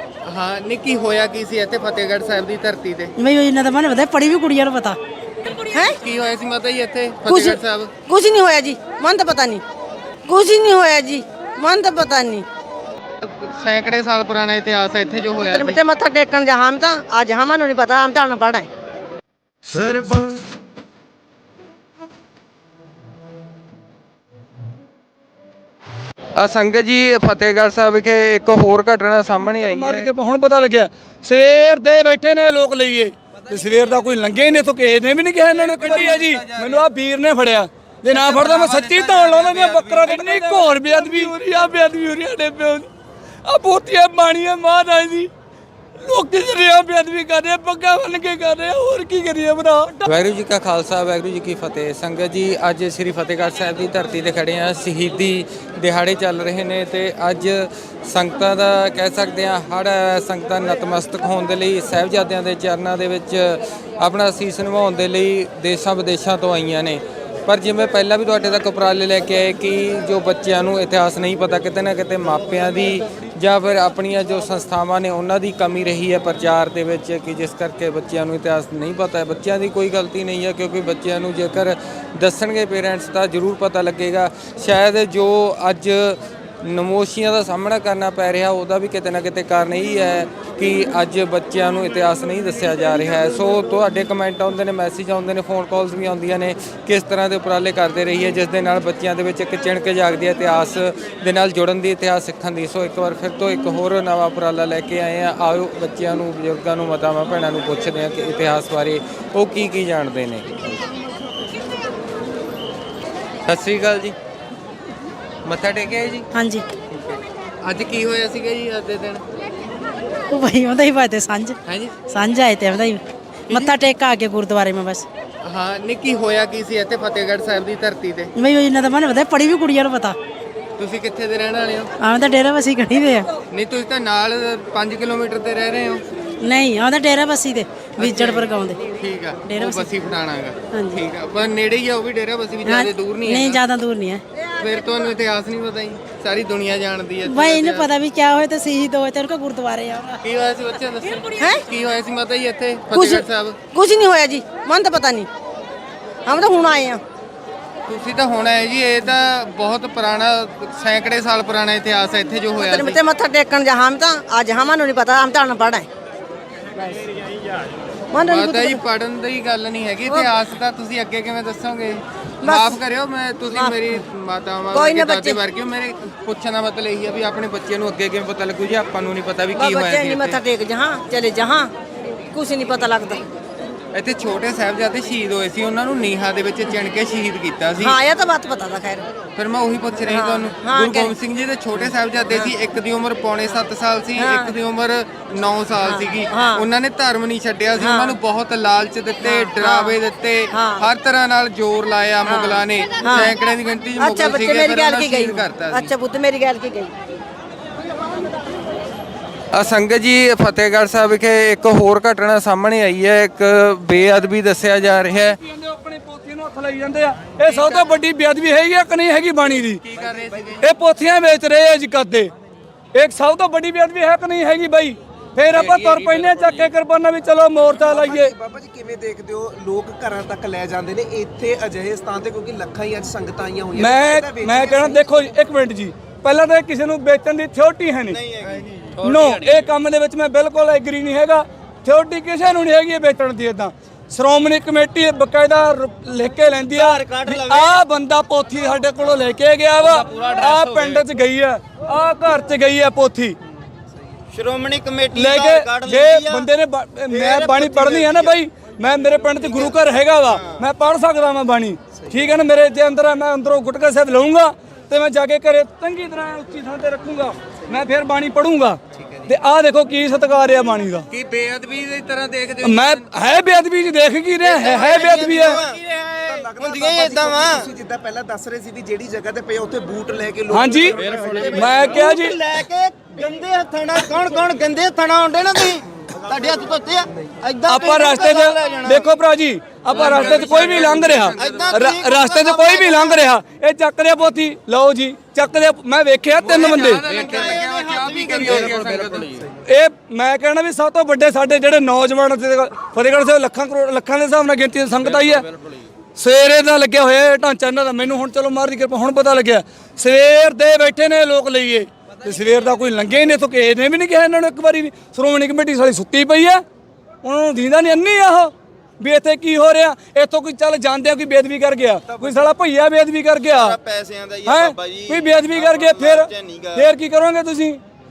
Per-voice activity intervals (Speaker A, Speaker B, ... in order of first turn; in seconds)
Speaker A: 0.2-3.1, 6.0-7.9, 13.2-15.8, 26.4-30.1, 35.5-36.8, 38.1-41.3, 50.1-110.8, 113.5-114.1, 115.4-116.3, 116.9-119.2, 121.7-121.9, 125.4-128.3, 130.8-131.9, 133.5-136.0, 138.0-143.6, 144.6-147.9, 150.2-153.6, 157.9-163.0, 168.2-180.4, 183.9-188.0, 189.4-205.9, 209.5-215.4, 217.4-218.0, 219.6-220.7, 225.5-226.7, 239.1-239.6, 249.8-251.0, 271.1-273.1, 289.9-291.9, 296.4-299.4
Speaker B: 3.2-5.0, 116.3-116.6, 120.3-121.5, 122.1-125.0, 128.4-130.2, 132.0-133.3, 136.4-138.8, 139.5-139.9, 140.7-141.0, 142.7-144.2, 147.3-150.2
Speaker C: 7.2-9.6, 10.3-12.4, 15.4-18.7, 152.9-155.3, 156.3-157.0, 162.6-165.9, 166.8-167.0, 168.1-168.8, 172.4-172.8, 174.7-175.4, 179.5-181.7, 182.3-183.2, 187.8-189.1, 190.0-191.1, 194.2-194.5, 195.8-196.6, 197.8-198.2, 199.2-200.0, 200.5-200.9, 202.3-203.3, 204.0-206.9
Speaker D: 29.7-42.9, 43.5-45.3, 46.0-50.1, 215.4-219.8, 220.6-222.3, 222.9-228.3, 233.7-238.2, 239.0-253.4, 255.1-271.1, 272.6-275.6, 280.5-281.0, 281.5-282.4, 287.7-297.1, 299.7-305.5, 306.2-316.6, 317.2-323.8, 324.4-327.8
Speaker E: 219.9-220.6, 227.7-235.2, 276.2-281.8, 286.3-286.6, 322.1-322.5
Speaker F: 238.1-238.7, 246.7-247.8, 254.3-256.5, 257.1-258.4, 259.4-260.6, 274.4-277.7, 280.9-289.1, 289.9-293.3, 296.8-299.4, 323.4-326.9